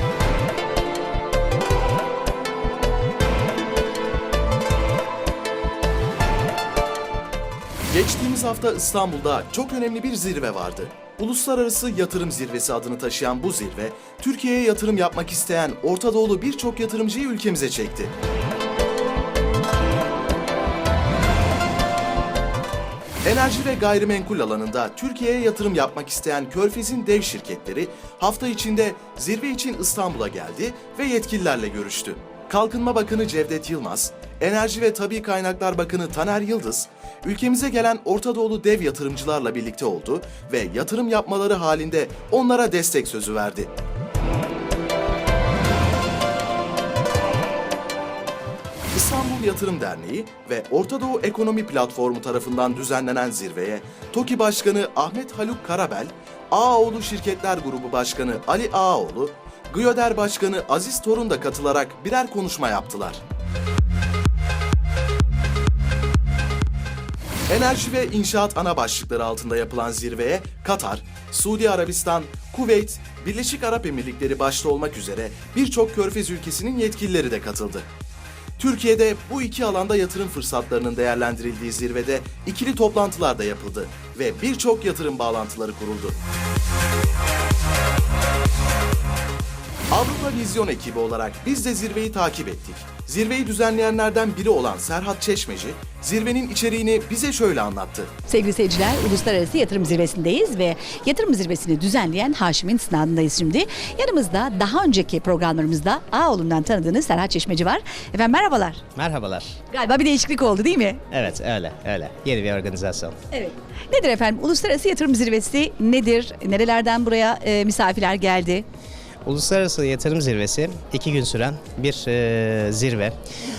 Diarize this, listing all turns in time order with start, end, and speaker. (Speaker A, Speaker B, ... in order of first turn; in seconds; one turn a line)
Speaker A: 7.9-18.1
Speaker A: 23.2-43.7
Speaker A: 48.9-63.2
Speaker A: 67.5-77.8
Speaker A: 78.6-86.2
Speaker A: 89.9-98.1
Speaker B: 98.2-108.8
Speaker C: 109.0-109.6
Speaker B: 109.7-111.0
Speaker C: 111.1-113.1
Speaker B: 113.3-118.6
Speaker C: 119.2-123.1